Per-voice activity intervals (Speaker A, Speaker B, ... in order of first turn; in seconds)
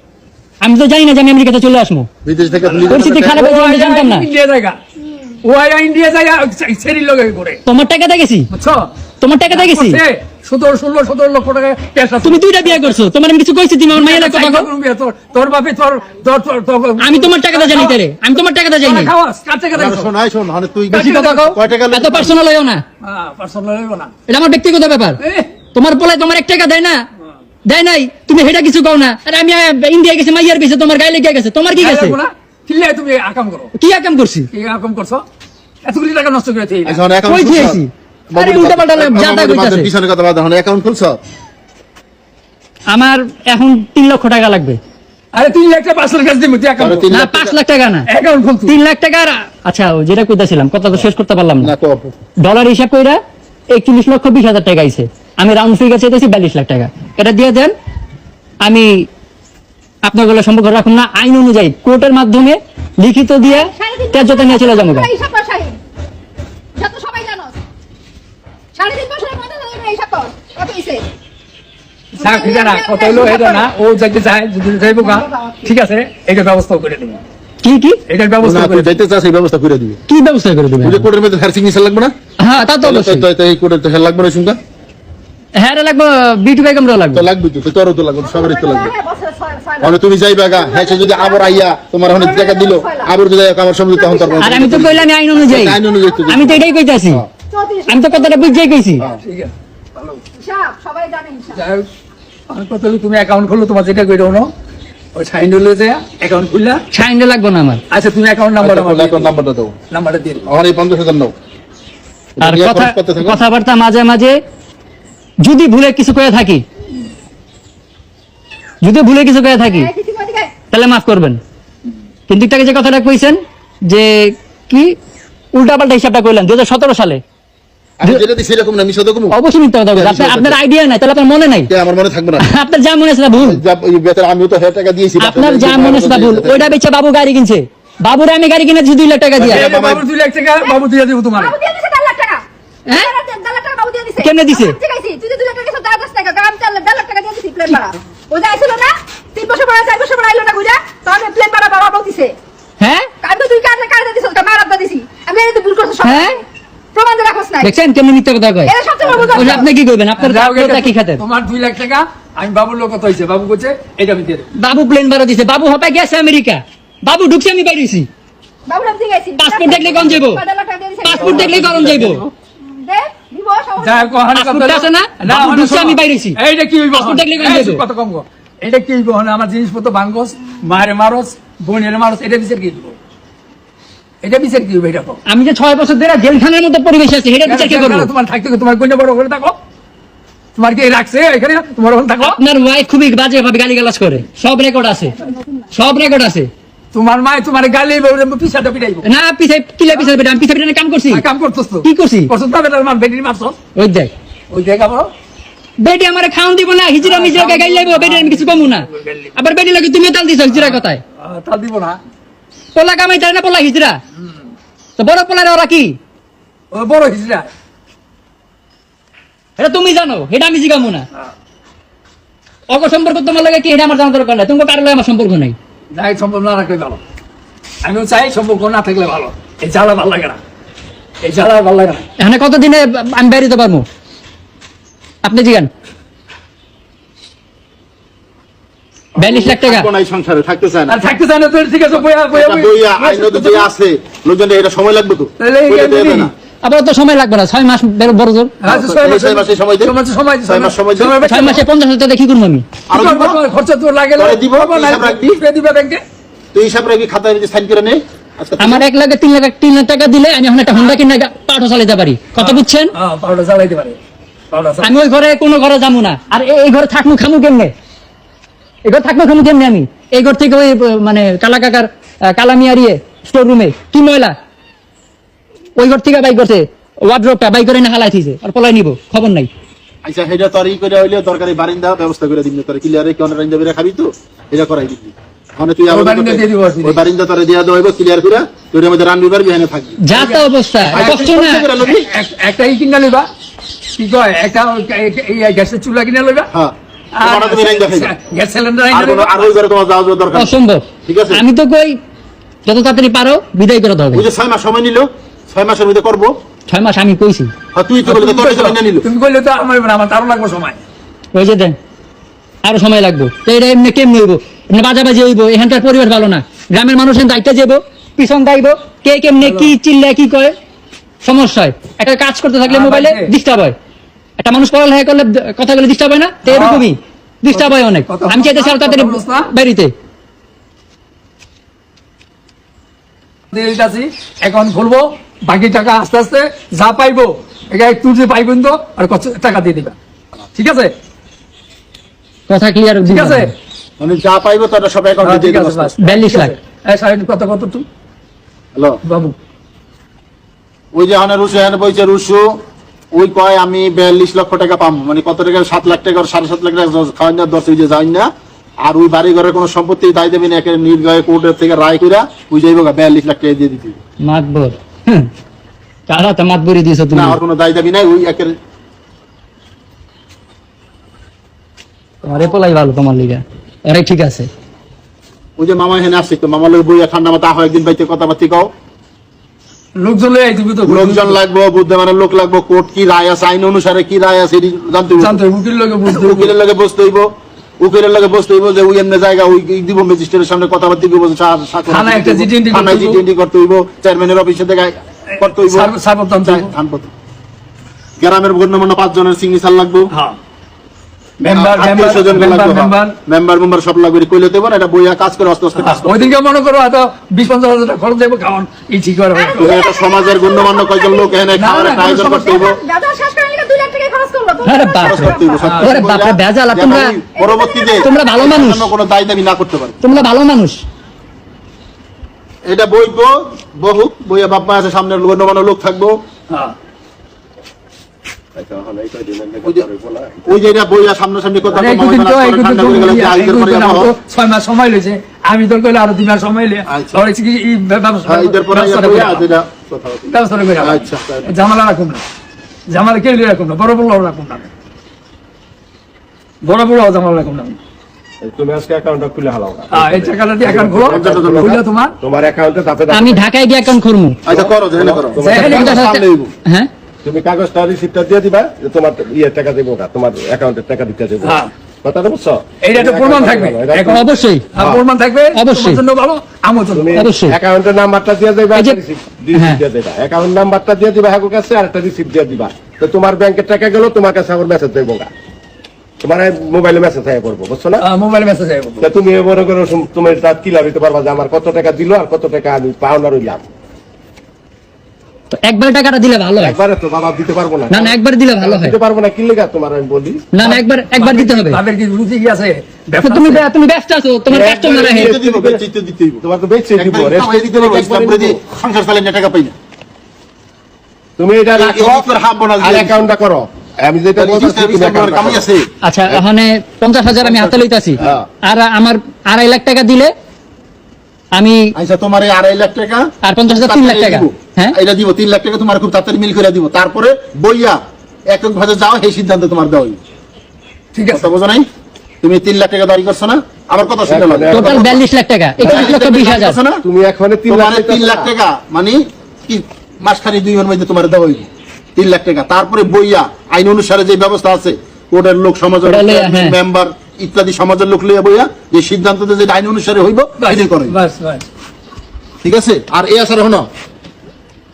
Speaker A: 0.6-2.1, 2.9-4.3, 7.7-8.5, 9.2-10.0, 12.2-14.7, 17.0-19.1, 20.9-22.8, 24.3-25.2, 25.7-27.0, 27.7-32.2, 33.8-34.5, 37.3-39.9, 42.9-44.8, 47.1-48.1, 48.7-51.7, 52.4-53.2, 53.7-57.7, 58.6-59.1, 60.0-65.1, 77.6-78.0, 80.1-81.1, 82.4-83.3, 85.6-87.3, 94.4-97.2, 97.9-99.1, 106.9-107.8, 112.4-114.4, 115.4-116.6, 118.8-119.9, 120.7-121.4, 122.3-125.0, 125.5-127.2, 129.3-131.7, 132.4-133.6, 135.2-139.7, 142.9-143.1, 144.2-144.8, 152.8-153.1, 156.0-156.4, 157.6-158.7, 159.3-161.2, 164.6-168.1, 169.4-170.4, 171.0-172.2, 174.3-176.4, 176.9-177.8, 185.3-188.1, 192.2-195.2, 195.7-196.5, 199.0-201.2, 201.8-202.3, 203.8-204.1, 205.8-211.0, 212.8-214.0, 215.0-216.0, 219.6-221.1, 222.7-225.6, 232.2-233.9, 235.2-235.7, 239.2-239.9, 246.6-248.6, 251.2-252.7, 258.6-262.9, 264.8-267.7, 268.9-274.4, 275.8-279.5, 290.0-291.7, 300.3-302.0, 302.7-304.3, 306.7-307.5, 311.3-311.8, 312.6-320.6, 321.2-323.8, 324.4-329.9, 342.5-343.5, 346.0-346.5, 364.2-365.3, 366.1-367.4, 372.2-374.5, 414.6-417.2, 418.0-418.9, 420.0-420.8, 453.1-454.4, 455.5-456.9, 464.0-464.7, 465.6-466.0, 467.1-467.6, 469.5-469.8, 485.5-486.8, 487.9-488.9, 490.5-491.8, 493.2-495.4, 506.0-510.3, 511.6-511.9, 513.4-515.0, 524.7-526.8, 536.1-536.8
Speaker B: 2.2-3.4, 19.7-22.4, 36.9-41.2, 46.8-47.6, 51.6-52.1, 78.4-80.0, 80.8-82.1, 82.8-84.6, 87.1-88.9, 89.8-97.3, 108.6-109.8, 110.5-111.3, 112.4-113.4, 128.0-129.4, 129.9-130.6, 131.7-132.5, 133.3-136.8, 139.4-140.0, 171.4-172.3, 239.2-241.1, 242.3-246.3, 248.7-249.9, 250.5-251.3, 252.9-253.4, 254.2-255.4, 256.5-258.9, 280.1-290.1, 290.9-292.1, 296.5-298.1, 298.9-300.5, 301.1-301.4, 304.1-306.4, 307.8-309.1, 344.0-345.9, 350.9-358.3, 358.9-364.0, 367.1-368.6, 375.6-378.7, 380.9-385.4, 386.1-387.3, 387.8-397.1, 398.2-400.1, 401.5-406.3, 409.5-412.8, 415.0-420.1, 422.7-426.2, 430.5-434.1, 436.9-437.2, 438.3-440.3, 440.8-441.5, 451.1-451.7, 454.5-456.5, 494.8-496.4, 497.0-499.8, 501.8-503.2, 504.4-505.9, 511.9-520.2, 521.3-521.9, 522.4-525.2, 525.8-527.0, 527.7-541.2, 542.6-543.9
Speaker C: 2.6-4.8, 5.4-7.6, 8.5-8.9, 9.5-12.9, 13.9-18.0, 18.8-20.1, 20.9-21.5, 23.0-24.1, 25.2-25.5, 31.8-33.7, 34.5-35.2, 35.9-37.0, 45.3-47.1, 48.1-48.8, 72.2-77.2, 78.1-78.9, 99.2-100.2, 101.5-101.9, 102.5-104.5, 105.2-106.8, 107.9-109.3, 109.9-110.5, 139.4-141.6, 159.0-164.5, 171.2-171.5, 173.8-183.0, 184.2-185.2, 187.5-189.6, 190.6-192.4, 196.9-199.1, 201.1-203.6, 204.5-205.1, 207.0-209.4, 210.5-212.0, 216.7-217.5, 225.9-227.0, 227.8-230.4, 231.2-232.1, 240.9-243.7, 245.4-246.3, 248.6-251.6, 252.9-256.0, 262.4-264.0, 264.5-264.9, 285.9-287.0, 290.1-293.3, 294.0-296.5, 297.2-299.5, 308.1-310.8, 319.4-319.7, 322.7-323.3, 326.5-326.9, 327.5-329.5, 333.5-339.9, 340.6-340.9, 343.1-343.5, 345.2-347.9, 349.1-349.4, 380.0-381.4, 385.2-386.5, 391.9-393.2, 395.3-396.7, 400.1-400.4, 401.4-403.1, 405.8-409.6, 411.6-412.6, 415.6-416.0, 426.5-426.8, 431.7-439.5, 440.3-442.2, 442.9-444.7, 446.6-447.8, 449.9-452.1, 455.4-456.0, 461.4-461.7, 462.8-467.1, 478.0-479.1, 490.6-493.6, 521.1-521.5, 540.6-541.6
Speaker D: 63.5-65.8, 66.8-67.6, 68.8-71.0, 72.2-73.7, 74.8-75.6, 88.2-93.1, 93.9-94.9, 95.9-96.8, 97.5-98.8, 100.4-101.6, 119.7-120.5, 141.4-152.3, 153.2-156.4, 156.9-157.7, 158.7-159.7, 168.7-171.8, 172.6-174.1, 195.1-195.7, 409.4-415.7, 417.4-418.2
Speaker E: 428.6-430.6, 448.4-453.5, 454.5-456.0, 457.2-464.2, 464.8-465.0, 466.9-475.3, 476.2-478.1, 479.0-483.7, 486.6-490.4, 494.5-495.8, 496.4-498.6, 501.4-505.6, 508.2-508.5, 524.3-525.1, 525.9-526.1, 527.0-528.5